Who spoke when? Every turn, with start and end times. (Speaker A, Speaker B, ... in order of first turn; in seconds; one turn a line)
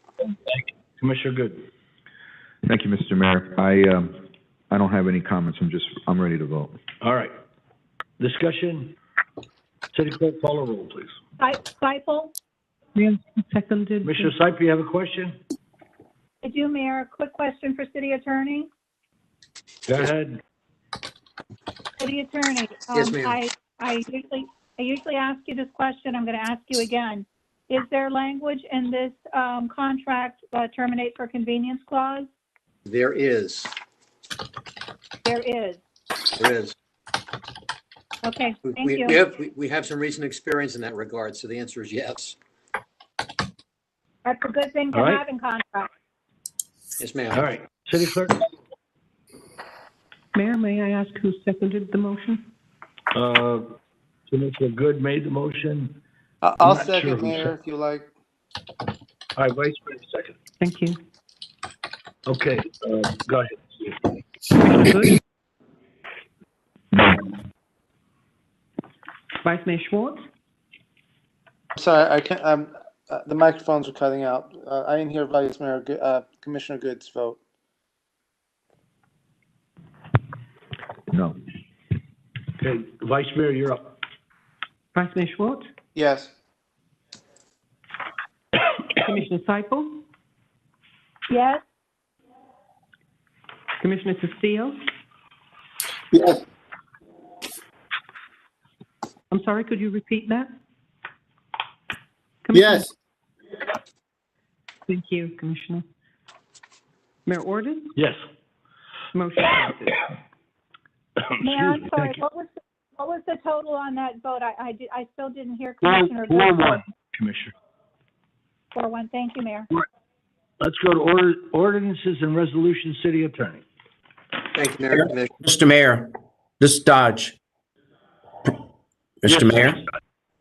Speaker A: 0.2-1.7
Speaker B: 2.6-4.2
Speaker B: 4.7-6.7
Speaker A: 7.0-7.3
Speaker A: 8.2-9.0
Speaker A: 9.9-11.1
Speaker C: 11.4-12.3
Speaker D: 12.9-14.3
Speaker A: 14.0-15.4
Speaker C: 16.4-18.7
Speaker A: 19.9-20.4
Speaker C: 22.0-32.3
Speaker E: 22.9-23.4
Speaker E: 32.9-33.7
Speaker C: 35.2-35.8
Speaker E: 36.4-36.7
Speaker C: 38.2-39.2
Speaker E: 38.7-42.4
Speaker C: 44.2-45.9
Speaker A: 44.9-45.2
Speaker E: 47.0-47.5
Speaker A: 47.3-48.5
Speaker D: 50.3-52.4
Speaker A: 53.1-53.8
Speaker A: 54.3-56.0
Speaker F: 56.4-58.1
Speaker A: 56.6-57.5
Speaker A: 59.3-60.4
Speaker D: 60.6-61.0
Speaker A: 62.2-64.1
Speaker D: 64.6-65.2
Speaker B: 66.9-67.3
Speaker D: 69.4-70.2
Speaker F: 71.8-77.4
Speaker B: 81.1-81.4
Speaker A: 82.6-84.0
Speaker D: 84.9-85.7
Speaker F: 86.0-86.3
Speaker D: 88.9-90.0
Speaker C: 91.3-91.6
Speaker D: 93.8-94.8
Speaker F: 96.1-96.4
Speaker D: 99.3-100.5
Speaker D: 102.4-102.9
Speaker F: 102.5-102.8
Speaker D: 104.9-105.8
Speaker D: 107.2-107.9
Speaker A: 108.0-108.2
Speaker D: 109.1-110.0
Speaker A: 111.2-112.2
Speaker C: 111.4-116.8
Speaker A: 115.8-117.5
Speaker C: 118.7-119.7
Speaker A: 120.6-123.6
Speaker E: 124.5-125.3
Speaker G: 124.9-126.1
Speaker G: 126.6-127.4
Speaker G: 129.2-129.8
Speaker A: 129.4-129.7